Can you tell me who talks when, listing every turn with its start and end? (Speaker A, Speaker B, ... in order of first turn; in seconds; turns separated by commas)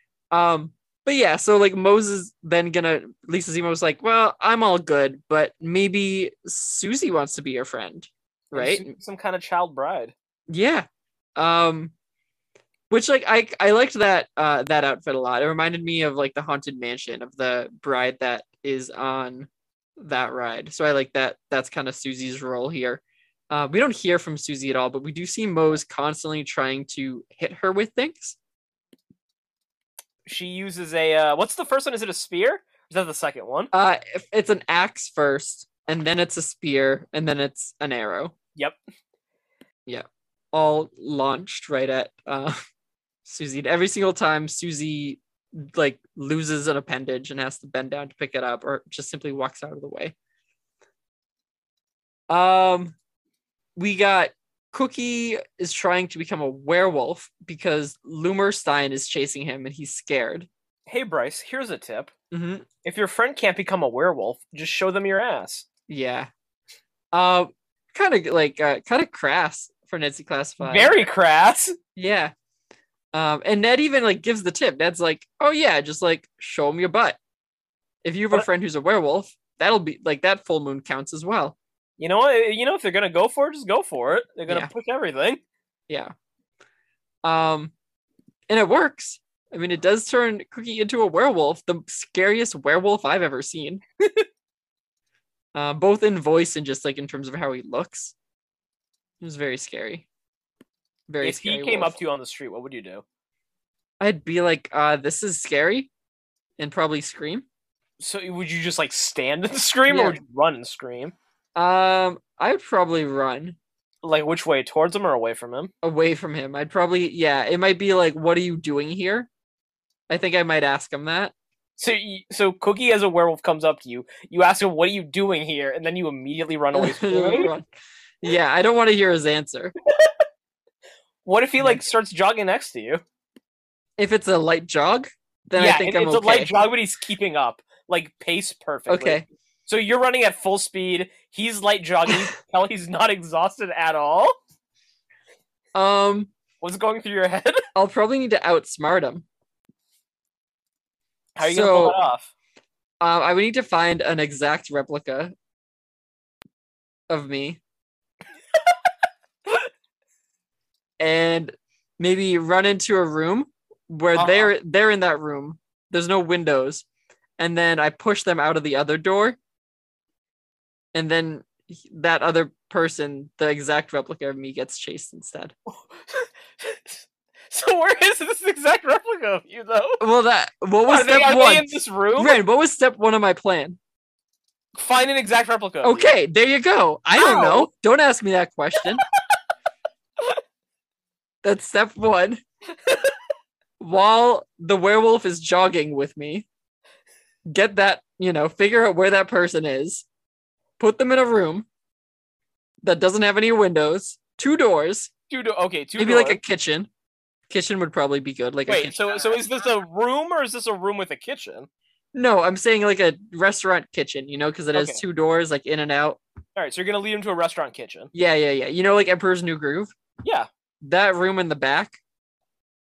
Speaker A: 0.3-8.9, Speaker B: 8.5-10.1, Speaker A: 10.5-11.9, Speaker A: 12.9-28.4, Speaker B: 30.2-33.7, Speaker A: 33.7-38.3, Speaker A: 39.9-42.6, Speaker A: 43.2-50.1, Speaker A: 52.3-52.9, Speaker A: 53.8-60.5, Speaker B: 60.9-62.1, Speaker A: 62.3-62.6, Speaker B: 62.8-65.7, Speaker A: 65.9-66.3, Speaker A: 67.1-70.9, Speaker B: 70.6-71.7, Speaker A: 72.0-72.3, Speaker A: 73.1-77.2, Speaker A: 78.0-81.5, Speaker B: 82.0-85.4, Speaker A: 87.2-87.7, Speaker A: 88.5-93.8, Speaker B: 94.0-94.2, Speaker A: 95.5-98.1, Speaker A: 99.2-100.1, Speaker A: 101.1-101.9, Speaker B: 101.2-103.0, Speaker A: 104.0-105.9, Speaker A: 106.6-107.4, Speaker B: 108.0-111.1, Speaker A: 109.9-110.2, Speaker A: 111.5-113.6, Speaker B: 114.0-115.7, Speaker A: 115.8-119.3, Speaker A: 120.1-121.3, Speaker B: 121.8-127.5, Speaker A: 126.7-127.7, Speaker A: 128.2-129.7, Speaker B: 131.2-133.0, Speaker A: 134.0-136.5, Speaker B: 135.6-144.3, Speaker A: 138.9-139.2, Speaker A: 145.7-146.3, Speaker B: 146.6-147.6, Speaker A: 147.7-149.2, Speaker B: 151.3-152.3, Speaker A: 151.4-152.0, Speaker A: 153.0-155.3, Speaker A: 157.1-157.6, Speaker A: 161.0-166.8, Speaker B: 164.1-164.5, Speaker A: 167.4-169.4, Speaker A: 170.9-175.5, Speaker B: 175.7-180.0, Speaker A: 180.0-183.8, Speaker B: 180.9-182.4, Speaker B: 184.7-186.1, Speaker A: 185.8-189.0, Speaker B: 187.1-187.7, Speaker A: 191.4-192.4, Speaker B: 192.8-193.1, Speaker A: 193.8-196.5, Speaker A: 197.4-200.1, Speaker A: 200.8-201.7, Speaker A: 202.8-205.1, Speaker B: 205.3-206.4, Speaker A: 206.0-206.9, Speaker A: 207.5-209.0, Speaker B: 208.7-211.7, Speaker A: 212.1-216.2, Speaker B: 214.7-215.0, Speaker B: 216.6-218.1, Speaker A: 218.1-219.9, Speaker A: 220.8-222.0